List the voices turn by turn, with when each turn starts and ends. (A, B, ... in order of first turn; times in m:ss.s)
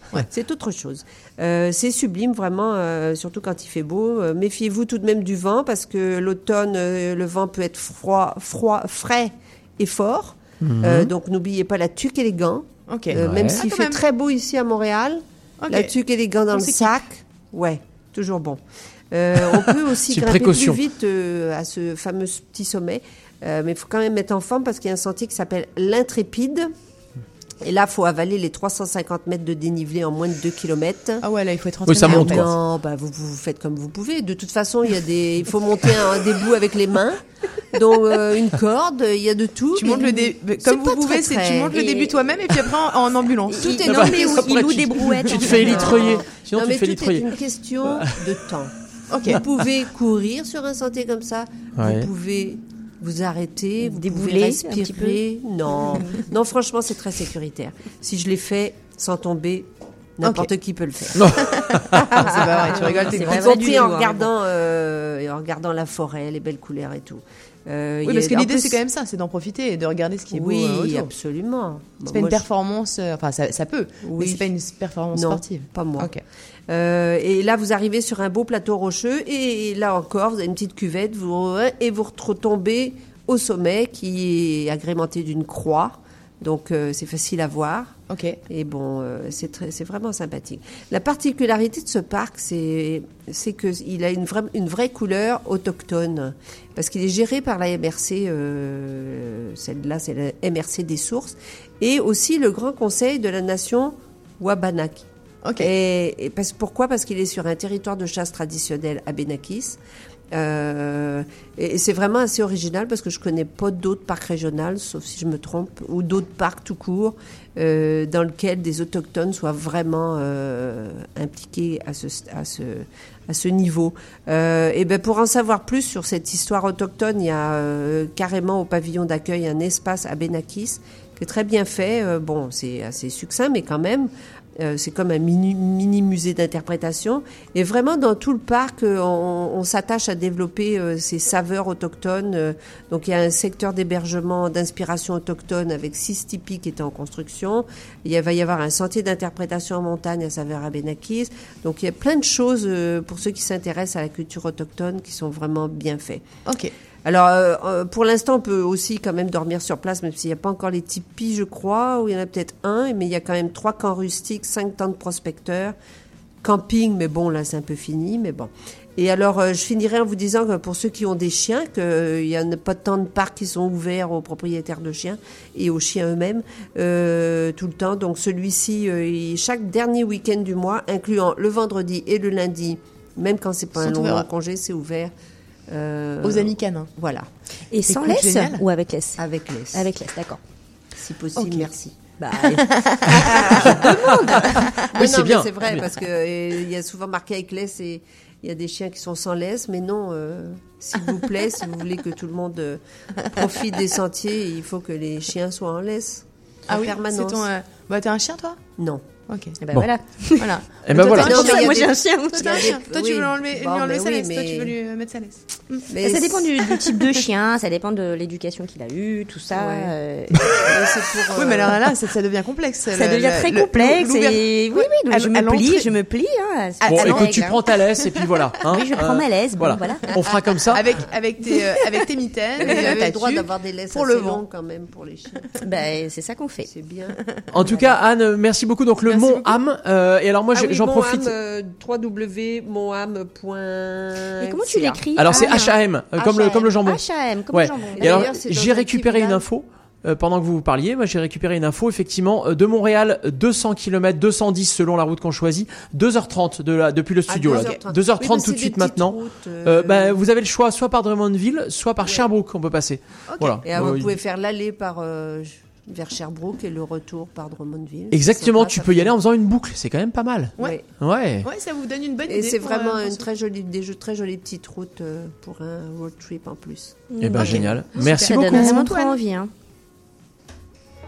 0:00.3-0:18.6 A
0:10.6-0:11.1 B
0:12.9-0:14.0 C
0:13.1-0:13.6 B
0:15.6-0:15.9 C
0:16.5-0:17.0 C
0:19.1-0:26.7 A
0:20.1-0:20.8 B
0:27.6-0:31.2 A
0:31.2-0:32.5 C
0:31.8-0:32.5 B
0:32.0-0:41.8 A
0:39.8-0:43.7 C
0:41.7-0:42.1 D
0:43.5-0:46.2 D
0:43.6-0:48.7 A
0:43.8-0:48.2 B
0:49.1-0:49.4 C
0:49.2-0:59.7 A
0:51.8-0:52.1 B
0:53.8-0:55.2 D
0:55.9-0:56.2 D
1:00.2-1:01.3 A
1:00.2-1:00.5 C
1:01.2-1:02.0 B
1:01.3-1:04.0 C
1:01.9-1:08.8 A
1:02.7-1:04.3 D
1:08.0-1:11.1 C
1:10.3-1:12.4 A
1:12.1-1:16.2 C
1:14.0-1:14.4 A
1:15.1-1:16.1 A
1:16.7-1:27.9 A
1:28.1-1:28.4 C
1:28.5-1:49.8 A
1:45.4-1:45.7 C
1:50.3-2:36.2 A
2:36.4-2:36.7 C
2:37.0-2:45.7 A
2:46.4-3:05.1 A
3:03.8-3:04.3 C
3:05.7-3:07.3 A
3:06.2-3:06.9 C
3:07.7-3:10.4 D
3:07.9-3:08.6 C
3:09.2-3:09.9 A
3:10.9-3:12.0 A
3:12.2-3:14.5 D
3:12.8-3:13.6 C
3:13.1-3:27.5 A
3:13.9-3:15.9 B
3:26.7-3:28.6 C
3:28.8-3:29.0 A
3:29.3-3:29.6 C
3:29.6-3:30.6 D
3:30.4-3:35.9 C
3:30.8-3:31.5 B
3:31.0-3:34.7 A
3:31.1-3:32.8 D
3:35.9-3:36.5 A
3:36.0-3:40.7 D
3:36.8-3:37.2 C
3:39.5-3:39.9 A
3:40.5-3:41.8 A
3:41.4-3:46.0 C
3:42.9-3:47.6 D
3:46.8-3:48.4 C
3:46.9-3:50.8 B
3:48.7-3:50.4 D
3:50.6-3:54.4 C
3:52.6-3:55.6 A
3:55.6-3:56.7 D
3:56.6-3:58.0 A
3:57.5-4:01.3 B
3:59.0-3:59.6 C
4:00.5-4:06.8 A
4:04.4-4:05.8 D
4:05.2-4:24.2 B
4:06.8-4:08.3 D
4:07.9-4:09.5 A
4:17.3-4:20.2 A
4:17.5-4:17.8 C
4:23.3-4:23.6 C
4:23.6-4:29.1 A
4:28.1-4:31.5 B
4:30.6-4:30.8 A
4:31.4-4:33.2 C
4:32.3-4:37.7 A
4:37.1-4:39.5 D
4:37.2-4:38.8 B
4:37.3-4:39.2 C